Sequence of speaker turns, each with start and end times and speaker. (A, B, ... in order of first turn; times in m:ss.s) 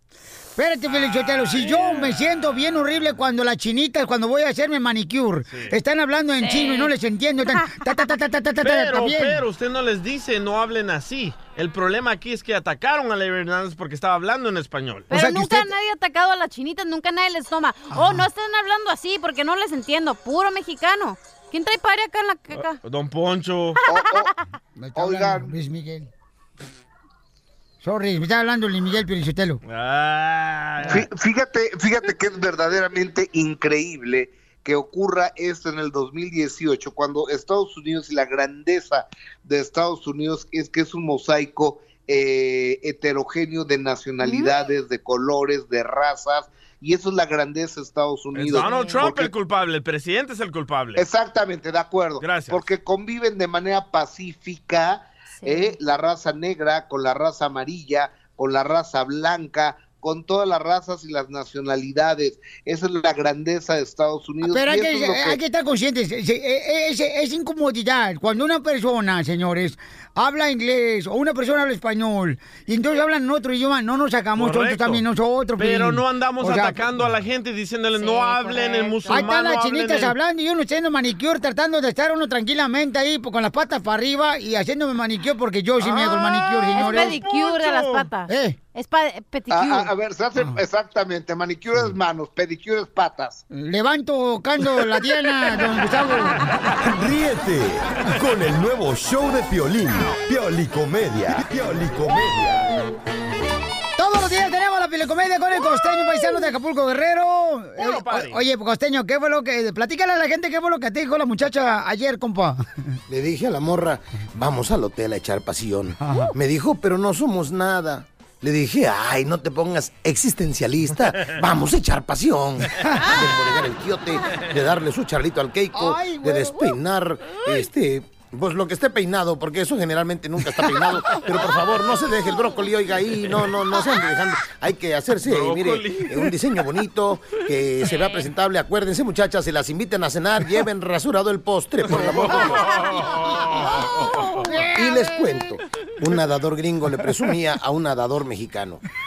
0:00.6-0:09.4 A
0:00.9-0:02.3 B
0:05.5-0:05.7 B
0:06.4-0:06.9 C
0:08.6-0:15.1 B
0:15.1-0:22.8 C
0:15.1-0:15.7 A
0:17.9-0:18.3 A
0:22.5-0:23.8 B
0:23.9-0:24.3 D
0:23.9-0:24.2 C
0:24.8-0:26.1 A
0:25.0-0:25.5 D
0:27.8-0:29.6 A
0:29.6-0:31.0 B
0:30.8-0:49.3 D
0:44.2-0:44.6 C
0:48.3-0:51.0 B
0:48.6-0:49.1 C
0:51.0-1:05.4 D
0:52.2-0:52.6 B
0:55.4-0:55.8 C
1:04.4-1:16.9 A
1:14.4-1:15.0 B
1:15.6-1:20.1 B
1:18.0-1:19.3 C
1:19.1-1:27.2 A
1:25.8-1:28.1 B
1:26.7-1:29.9 C
1:28.3-1:28.6 A
1:29.5-1:33.4 D
1:33.5-1:36.4 A
1:36.8-1:42.7 E
1:44.0-1:52.6 A
1:47.8-1:48.4 B
1:53.1-2:22.7 F
1:56.0-1:56.3 A
2:02.9-2:03.3 C
2:05.7-2:06.8 A
2:15.2-2:16.2 B
2:17.9-2:18.3 C
2:23.2-2:23.6 B
2:23.8-2:24.5 C
2:24.4-2:25.3 A
2:24.7-2:28.8 F